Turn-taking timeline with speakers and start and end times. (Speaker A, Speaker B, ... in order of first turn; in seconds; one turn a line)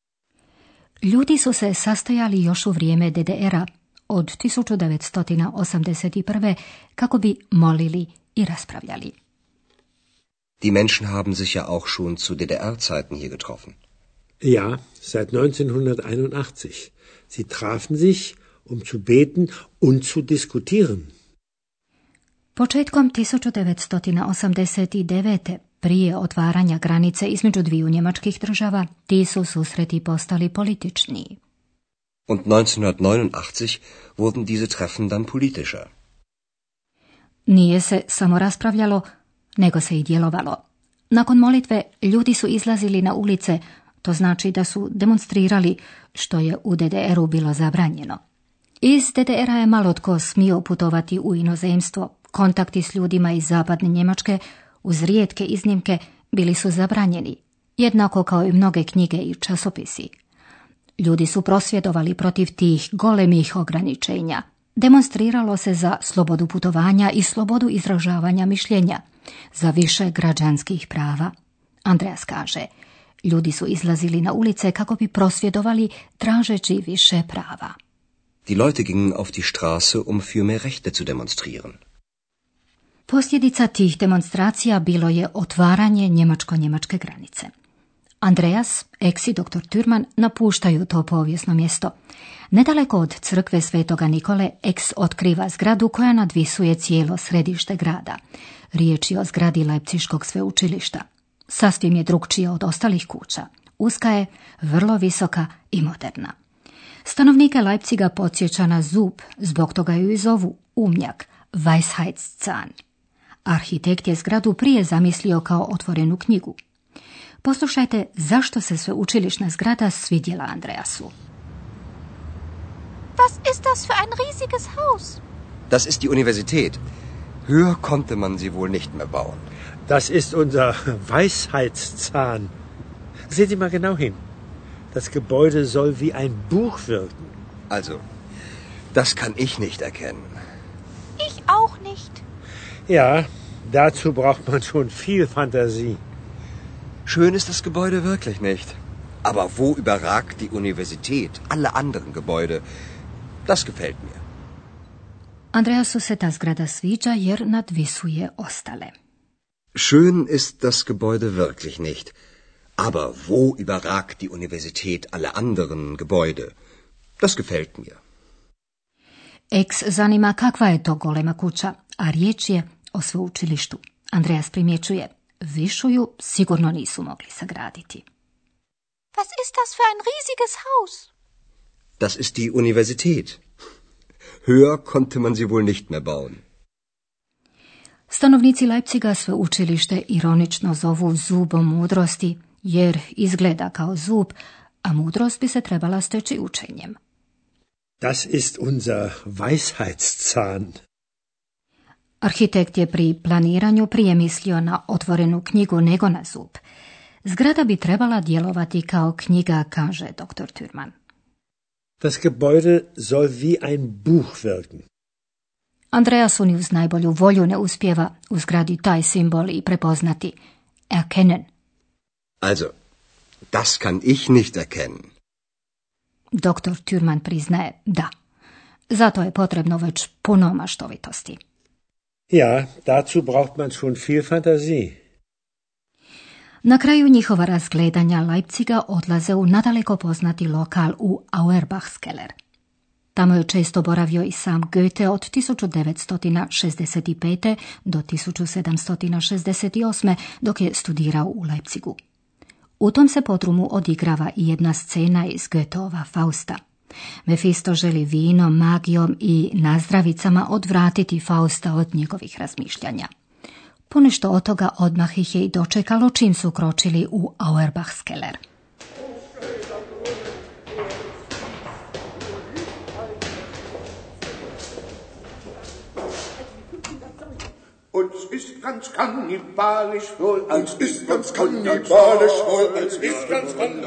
Speaker A: 1.0-9.1
Speaker B: 10.6-13.8
Speaker C: 14.4-21.1
Speaker A: 22.6-31.4
Speaker B: 32.3-35.9
Speaker A: 37.5-39.0
Speaker A: 39.6-48.2
Speaker A: 48.8-60.1
Speaker A: 61.0-69.0
Speaker A: 69.5-71.3
Speaker A: 71.8-72.7
Speaker A: 73.2-77.7
Speaker B: 78.5-81.8
Speaker A: 83.1-87.5
Speaker A: 88.2-91.9
Speaker A: 92.5-98.2
Speaker A: 98.7-106.3
Speaker A: 107.0-112.7
Speaker A: 113.5-116.6
Speaker A: 117.4-121.1
Speaker D: 123.2-125.2
Speaker B: 125.7-126.8
Speaker B: 127.4-129.5
Speaker C: 129.9-132.5
Speaker C: 133.3-134.2
Speaker C: 134.9-137.3
Speaker B: 137.7-138.0
Speaker B: 138.9-140.4
Speaker D: 141.2-142.2
Speaker C: 142.9-146.0
Speaker B: 147.1-152.6
Speaker B: 153.4-154.2
Speaker A: 155.5-158.9
Speaker B: 159.7-162.1
Speaker B: 162.8-166.5
Speaker B: 167.2-168.0
Speaker A: 169.5-178.0
Speaker D: 179.2-181.1
Speaker B: 182.0-183.4
Speaker B: 184.4-186.4
Speaker A: 188.1-196.9
Speaker C: 198.0-200.7
Speaker A: 202.2-206.6
Speaker A: 207.2-210.9
Speaker C: 212.0-214.8
Speaker A: 215.9-220.4
Speaker A: 220.9-221.5
Speaker B: 222.4-222.7
Speaker B: 223.5-225.1
Speaker A: 226.3-228.1
Speaker A: 228.9-231.4
Speaker C: 232.3-234.9
Speaker A: 236.6-242.3
Speaker A: 243.1-252.0
Speaker A: 252.8-256.6
Speaker A: 257.2-263.1
Speaker A: 263.9-268.4
Speaker E: 277.9-283.1